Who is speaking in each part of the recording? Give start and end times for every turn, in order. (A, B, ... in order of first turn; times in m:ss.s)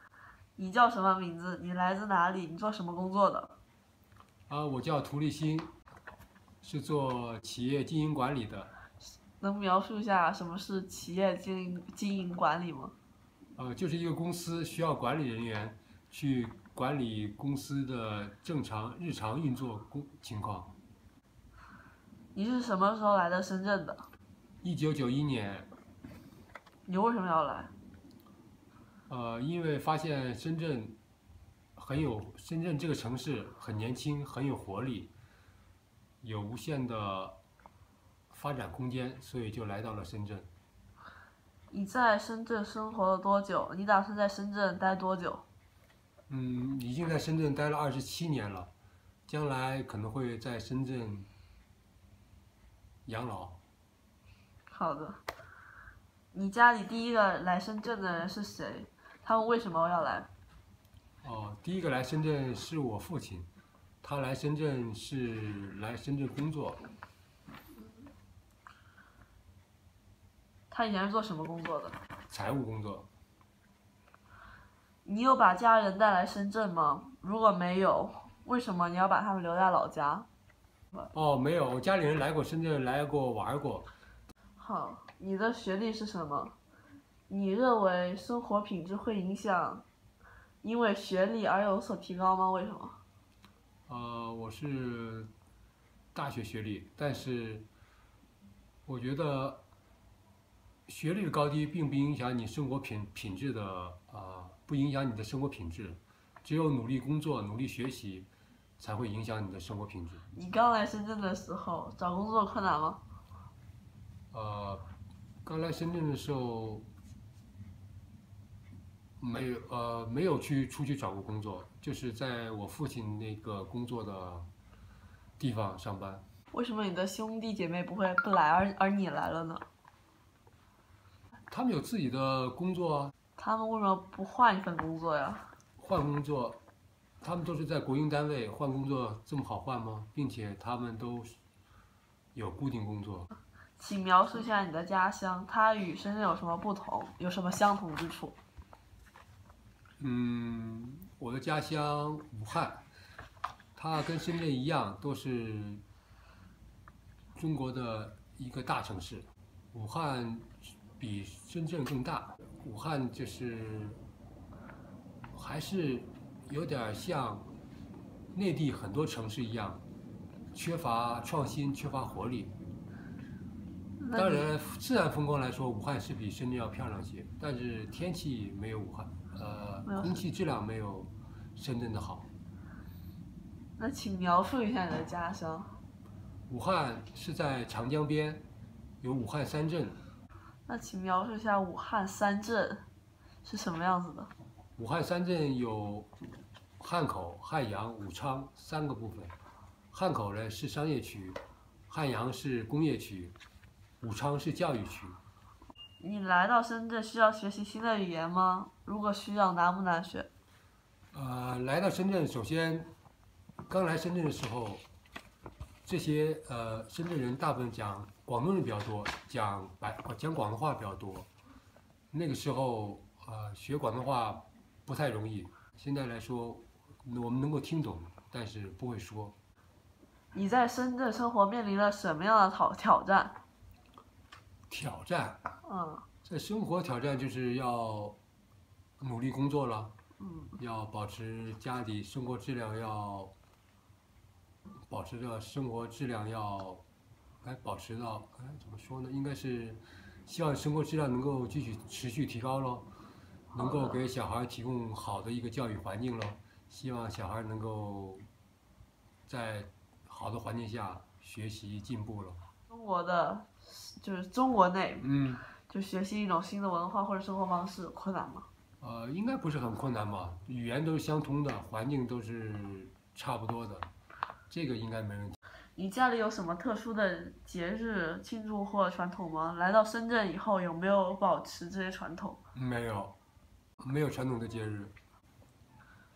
0:00.6-0:03.6 A
0:04.5-0:05.8 B
0:06.6-0:08.7 B
0:09.4-0:13.0 A
0:13.6-0:20.7 B
0:22.3-0:24.0 A
0:24.6-0:25.7 B
0:26.9-0:27.7 A
0:29.1-0:31.0 B
0:31.8-0:35.1 B
0:36.2-0:37.4 B
0:38.3-0:40.5 B
0:41.7-0:45.4 A
0:46.3-0:48.7 B
0:49.3-0:51.3 B
0:53.1-0:53.6 B
0:54.7-0:55.2 A
0:56.3-1:00.3 A
1:01.2-1:03.5 B
1:04.0-1:06.8 B
1:10.7-1:12.0 A
1:12.3-1:13.1 B
1:15.0-1:20.3 A
1:21.1-1:23.9 B
1:24.6-1:26.6 A
1:27.3-1:29.8 A
1:30.6-1:33.0 A
1:33.9-1:35.3 B
1:36.1-1:37.7 B
1:38.9-1:39.6 B
1:40.9-1:48.3 B
1:48.8-1:50.2 B
1:50.3-1:53.0 A
1:54.3-1:54.9 B
1:55.4-1:56.9 B
1:59.2-2:04.5 B
2:05.4-2:06.2 B
2:06.5-2:09.6 A
2:11.5-2:13.1 B
2:13.4-2:15.5 A
2:15.8-2:16.6 B
2:17.2-2:21.4 B
2:22.4-2:23.3 B
2:23.8-2:28.4 A
2:30.0-2:32.9 B
2:33.8-2:35.8 B
2:37.4-2:44.0 B
2:45.3-2:47.5 B
2:48.3-2:49.8 B
2:50.5-2:52.6 B
2:54.0-2:54.5 A
2:54.1-3:02.3 B
3:03.8-3:05.7 A
3:06.5-3:08.5 B
3:09.0-3:10.0 B
3:10.7-3:12.8 A
3:13.4-3:14.3 A
3:14.8-3:16.1 B
3:16.8-3:19.4 B
3:19.9-3:23.4 B
3:24.0-3:25.2 B
3:26.0-3:30.3 A
3:31.1-3:32.9 B
3:33.7-3:34.8 B
3:35.8-3:41.3 B
3:42.1-3:49.4 B
3:50.3-3:53.4 A
3:54.7-3:55.5 B
3:55.6-3:56.0 A
3:56.2-3:58.2 B
3:59.0-3:59.9 B
4:00.2-4:00.5 A
4:00.6-4:03.3 B
4:04.9-4:06.8 B
4:07.4-4:12.9 B
4:13.5-4:18.3 B
4:13.6-4:14.0 A
4:19.3-4:22.4 B
4:22.7-4:25.1 A
4:25.0-4:25.5 B
4:25.6-4:28.5 A
4:28.8-4:33.9 B
4:34.5-4:35.4 B
4:35.8-4:42.4 A
4:42.5-4:43.2 B
4:43.8-4:45.0 B